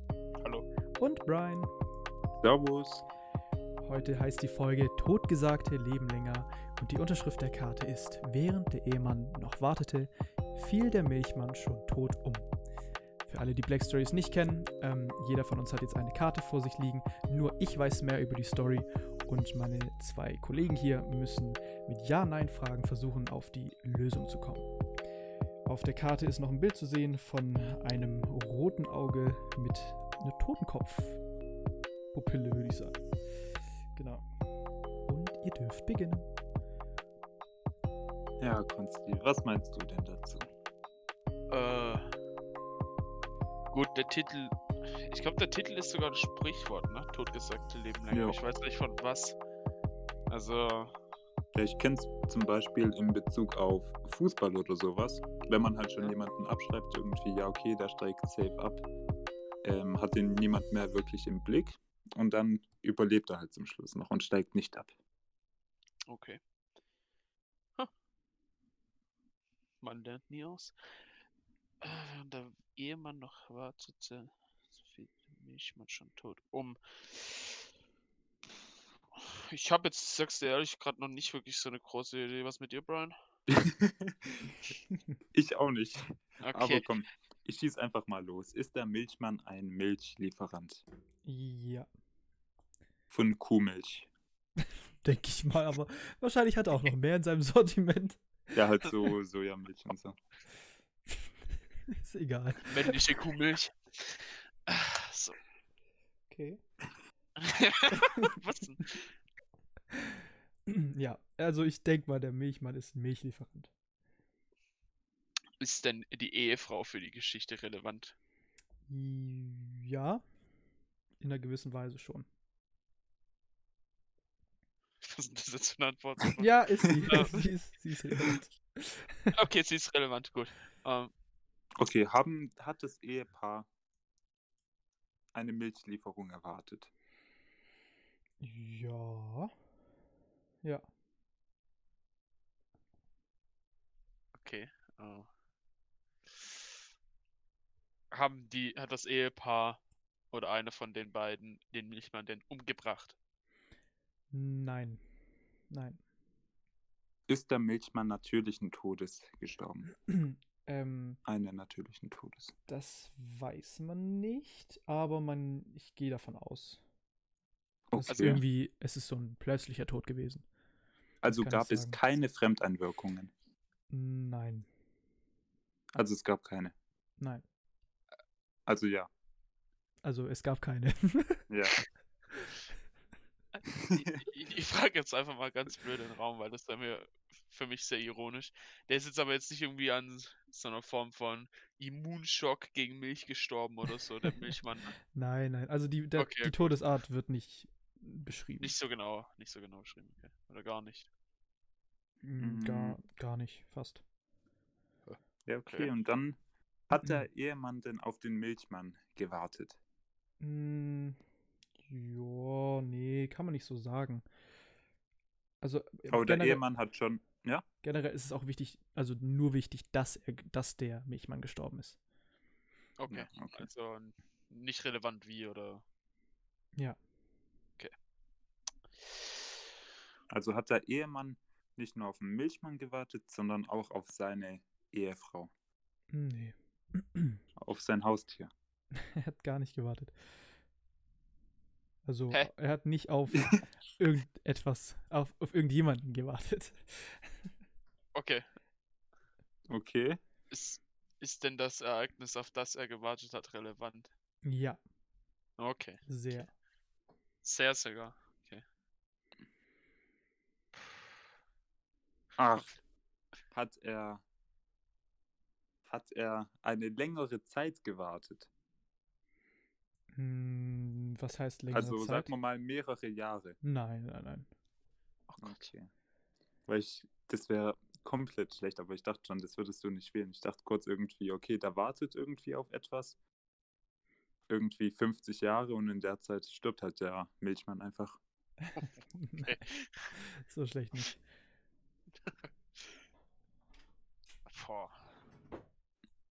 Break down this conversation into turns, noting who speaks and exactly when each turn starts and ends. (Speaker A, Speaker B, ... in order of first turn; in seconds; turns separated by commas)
Speaker A: 0.4-0.7, Speaker B: 0.9-1.7, Speaker C: 2.4-3.0, Speaker B: 3.8-12.5, Speaker B: 13.3-24.7, Speaker B: 25.6-31.2, Speaker B: 32.1-33.0, Speaker B: 33.9-34.2, Speaker B: 35.0-36.3, Speaker C: 38.4-40.5, Speaker A: 41.5-42.0, Speaker A: 43.7-49.4, Speaker C: 48.1-48.4, Speaker A: 50.3-50.9, Speaker C: 51.5-58.8, Speaker C: 59.6-64.9, Speaker A: 66.1-66.4, Speaker A: 69.8-70.7, Speaker A: 71.8-77.6, Speaker A: 79.1-83.1, Speaker C: 83.5-84.5, Speaker C: 85.3-90.8, Speaker A: 86.4-86.8, Speaker B: 91.2-91.9, Speaker C: 93.1-94.1, Speaker B: 95.0-98.5, Speaker C: 98.5-100.2, Speaker B: 101.9-102.9, Speaker A: 102.6-105.4, Speaker B: 106.3-106.6, Speaker A: 107.4-109.1, Speaker B: 109.9-113.7, Speaker A: 115.6-118.1, Speaker B: 118.9-120.2, Speaker B: 121.2-122.3, Speaker A: 125.0-126.5, Speaker B: 126.4-129.3, Speaker A: 127.1-127.5, Speaker A: 129.3-131.1, Speaker C: 131.8-133.7, Speaker C: 135.3-136.9, Speaker B: 138.4-139.5, Speaker A: 144.4-145.3, Speaker A: 148.1-149.8, Speaker A: 150.3-153.2, Speaker B: 154.3-155.0, Speaker B: 155.7-156.0, Speaker C: 157.3-159.9, Speaker B: 160.0-161.2, Speaker C: 161.2-162.5, Speaker B: 162.7-166.8, Speaker C: 167.9-168.4, Speaker B: 167.9-170.4, Speaker A: 168.1-168.4, Speaker C: 171.2-173.3, Speaker B: 171.3-172.0, Speaker B: 173.9-174.7, Speaker C: 175.9-176.7, Speaker B: 177.2-177.4, Speaker C: 178.7-179.1, Speaker B: 180.0-181.4, Speaker C: 181.5-181.8, Speaker C: 183.7-184.2, Speaker A: 183.9-194.9, Speaker B: 194.2-194.5, Speaker B: 195.1-198.7, Speaker A: 196.2-196.8, Speaker A: 198.6-201.1, Speaker B: 202.2-204.0, Speaker C: 202.4-203.0, Speaker A: 205.1-205.9, Speaker C: 205.4-206.4, Speaker C: 206.9-209.8, Speaker B: 206.9-207.2, Speaker B: 210.4-211.2, Speaker B: 211.8-214.2, Speaker B: 215.6-216.6, Speaker C: 216.1-217.6, Speaker B: 217.8-222.0, Speaker A: 223.0-225.8, Speaker C: 223.1-223.7, Speaker C: 230.3-235.5, Speaker B: 236.1-237.4, Speaker C: 237.6-238.5, Speaker B: 238.9-240.1, Speaker B: 242.0-247.3, Speaker A: 248.1-248.4, Speaker C: 249.7-250.2, Speaker A: 250.5-254.1, Speaker B: 254.4-254.8, Speaker A: 255.6-256.4, Speaker B: 256.1-256.5, Speaker A: 257.4-258.6, Speaker A: 260.8-261.1, Speaker C: 262.4-262.8, Speaker C: 263.5-264.2, Speaker C: 265.9-268.5, Speaker B: 270.1-272.3, Speaker C: 271.7-273.6, Speaker B: 273.6-274.5, Speaker A: 275.3-275.7, Speaker C: 275.4-275.9, Speaker C: 276.7-283.2, Speaker C: 284.5-288.2, Speaker B: 288.6-289.6, Speaker A: 288.8-290.2, Speaker B: 290.2-291.2, Speaker A: 292.2-293.0, Speaker A: 294.5-295.0